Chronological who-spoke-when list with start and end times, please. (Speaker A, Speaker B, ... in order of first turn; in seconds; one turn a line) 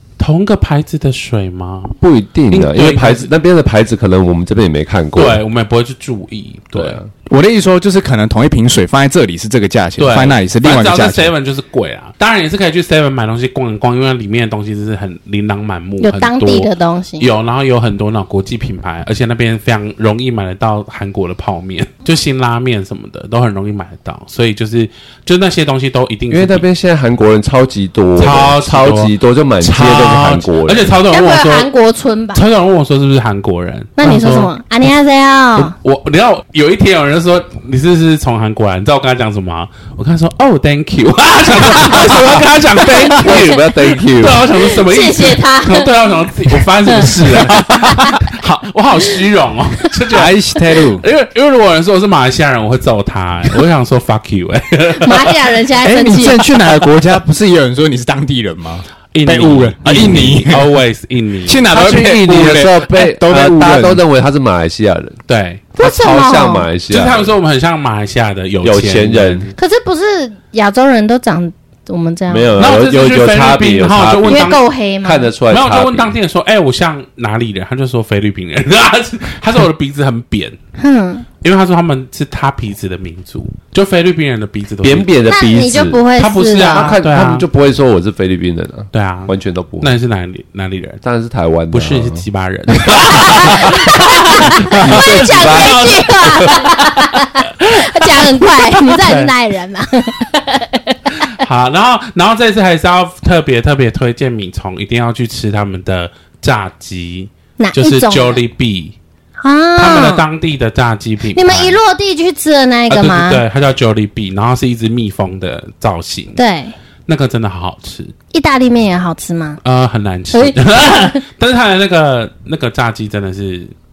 Speaker A: 0.2-2.0
Speaker B: 2.0-5.4
Speaker A: 2.5-3.3
Speaker A: 5.2-7.0
Speaker B: 6.7-7.1
Speaker C: 7.3-11.3
Speaker A: 10.0-26.6
Speaker D: 16.0-17.3
Speaker B: 26.3-31.0
Speaker A: 28.2-31.7
Speaker D: 31.1-32.4
Speaker A: 32.3-34.5
Speaker D: 34.0-35.8
Speaker A: 35.5-55.6
Speaker B: 41.9-44.6
Speaker D: 44.7-48.3
Speaker C: 47.2-47.9
Speaker C: 50.1-51.0
Speaker D: 55.0-56.5
Speaker C: 55.8-60.8
Speaker A: 59.1-61.6
Speaker C: 61.5-64.0
Speaker B: 61.7-65.2
Speaker A: 65.3-65.7
Speaker D: 65.8-66.7
Speaker B: 65.8-67.3
Speaker A: 66.9-69.5
Speaker B: 68.6-69.5
Speaker D: 69.6-72.5
Speaker B: 72.3-76.1
Speaker A: 72.6-74.6
Speaker D: 74.3-75.3
Speaker A: 75.5-80.6
Speaker D: 80.8-81.3
Speaker A: 81.4-85.1
Speaker B: 84.8-86.0
Speaker D: 85.3-87.0
Speaker A: 86.2-87.5
Speaker B: 86.6-89.9
Speaker A: 88.9-91.0
Speaker B: 91.0-92.2
Speaker A: 91.7-99.3
Speaker D: 92.9-101.2
Speaker B: 93.0-96.7
Speaker A: 101.2-109.0
Speaker D: 107.6-108.4
Speaker D: 109.4-110.2
Speaker A: 109.8-111.8
Speaker D: 111.3-113.4
Speaker A: 112.9-116.4
Speaker D: 116.4-116.8
Speaker A: 117.1-118.1
Speaker D: 118.3-119.6
Speaker A: 119.6-123.7
Speaker D: 120.3-121.2